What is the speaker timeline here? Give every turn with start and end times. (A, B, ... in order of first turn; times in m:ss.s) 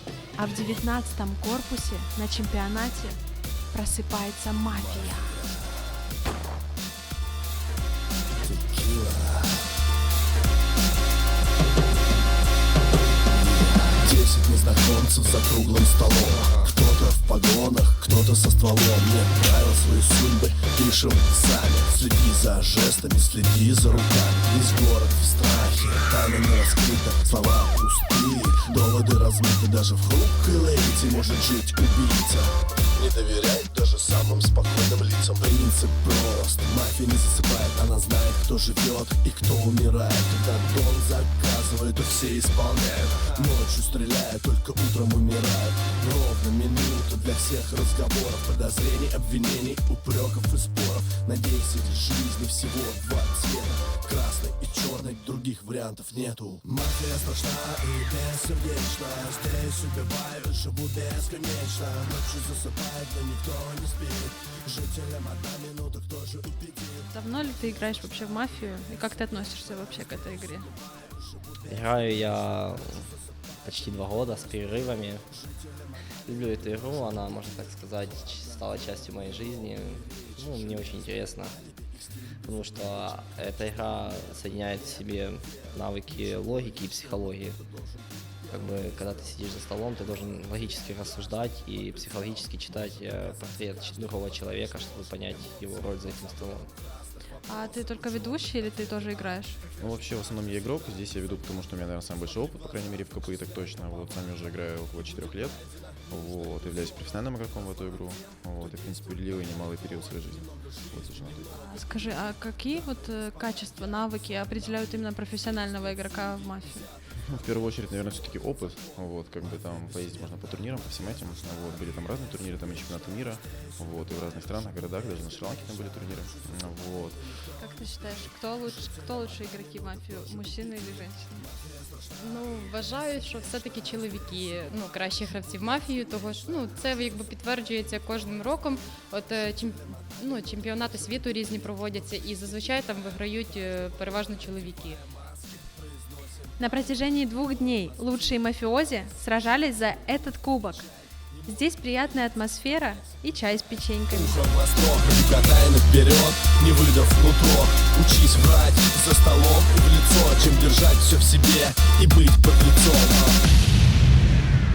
0:00.4-0:03.2 A
0:03.7-0:05.4 A
0:04.8-0:05.8 B
0:08.4-0:09.7 B
0:13.6-1:07.0 B
1:07.1-1:10.7 A
1:11.7-1:15.3 C
1:16.3-1:21.6 C
1:22.4-1:27.6 C
1:28.5-1:36.7 C
1:37.5-1:39.6 A
1:39.8-1:45.6 D
1:46.1-1:51.5 D
1:51.5-1:56.9 A
1:57.3-2:07.3 D
2:07.6-2:11.5 A
2:12.2-2:25.0 E
2:26.6-2:30.9 A
2:31.4-2:34.4 A
2:34.1-2:43.4 B